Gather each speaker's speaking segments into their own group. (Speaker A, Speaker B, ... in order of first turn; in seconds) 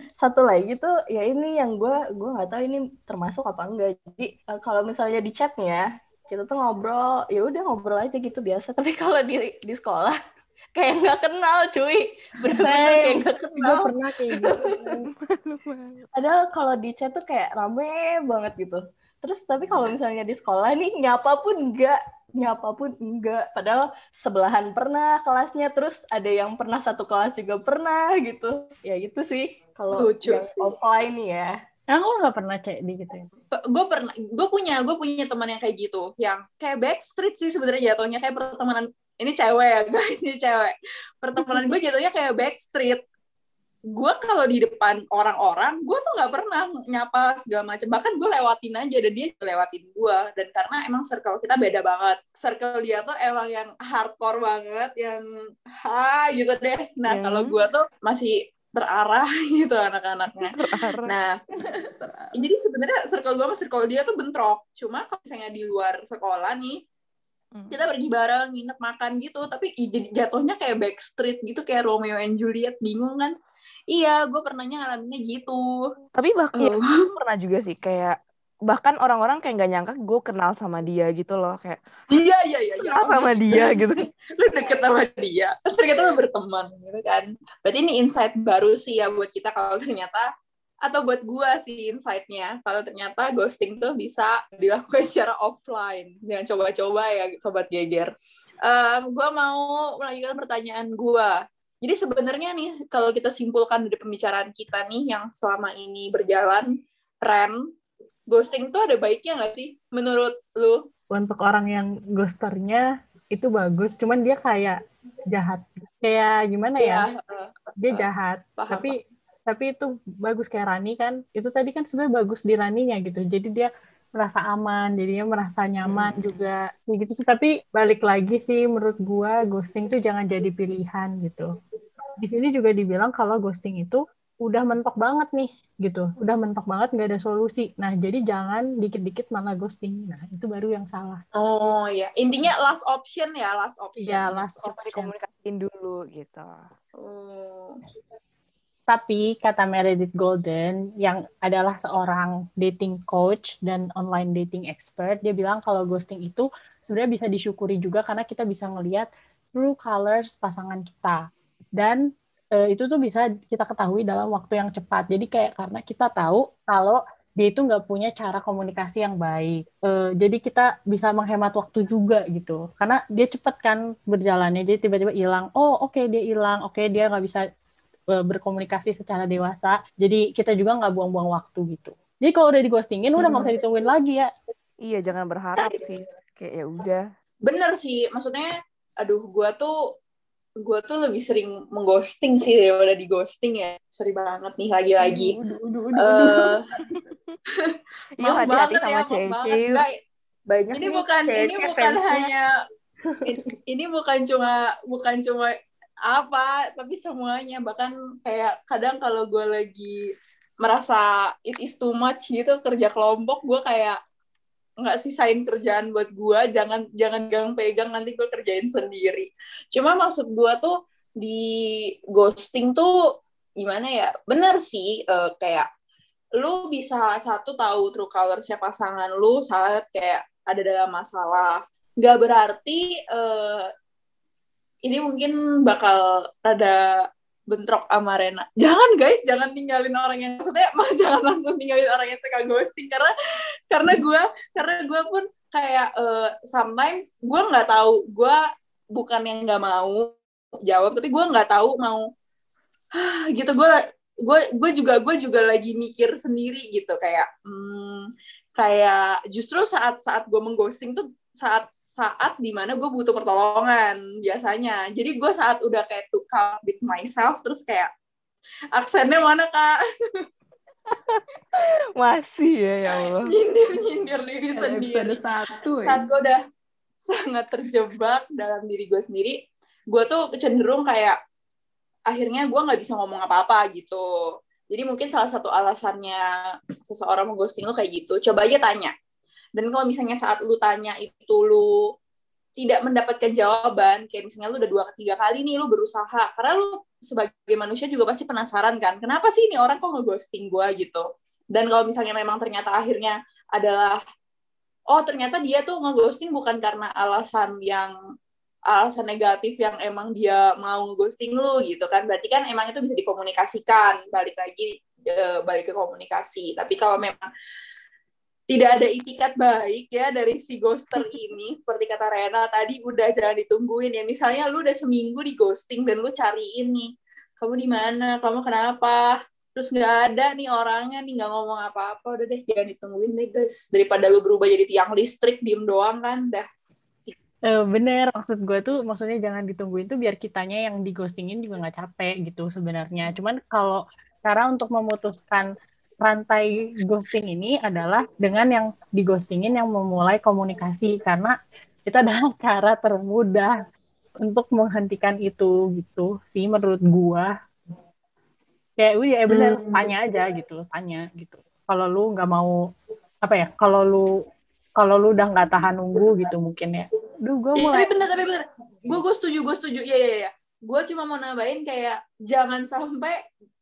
Speaker A: 0.2-10.2, 10.8-13.9, 14.5-15.0, 16.1-31.5, 200.5-202.3, 203.1-203.3
Speaker B: 12.5-14.9, 31.9-33.3, 111.1-114.8, 115.3-117.1, 117.8-119.0, 119.5-131.5, 132.2-141.2, 144.0-145.1, 148.9-161.3, 162.6-177.4, 178.2-184.3, 337.5-345.5, 346.1-351.3, 351.9-353.5, 354.3-357.3, 358.8-362.5, 363.2-364.1, 364.8-367.9
Speaker C: 15.1-16.1, 57.1-57.6, 60.5-61.1, 76.2-78.2, 78.7-81.8, 82.8-84.1, 144.6-146.6, 184.8-187.1, 196.8-197.4, 198.2-199.8, 270.9-273.3
Speaker D: 30.0-30.7, 33.6-43.0, 43.9-55.2, 55.8-61.4, 62.4-66.8, 67.7-73.3, 73.9-75.7, 76.6-77.1, 82.1-90.3, 90.8-98.1, 98.7-106.7, 107.2-107.6, 108.3-110.8, 116.8-118.0, 118.6-118.9, 141.3-144.4, 147.0-147.8, 187.5-189.7, 190.6-195.3, 196.0-196.6, 197.7-199.9, 200.7-202.5, 203.2-205.5, 206.1-210.0, 210.6-214.0, 214.8-221.4, 222.1-222.9, 223.6-225.7, 226.4-233.7, 234.8-236.8, 237.5-243.1, 243.7-248.4, 248.9-250.1, 250.7-252.1, 253.0-267.9, 268.8-269.8, 272.9-275.2, 275.9-276.4, 277.1-279.4, 279.9-281.2, 282.1-284.0, 284.7-286.2, 286.8-288.9, 289.6-291.7, 292.6-304.0, 304.9-307.9, 308.7-317.3, 318.5-329.0, 329.6-336.5, 359.3-359.9, 367.6-373.2
Speaker E: 61.5-62.4, 195.1-196.5, 274.6-276.1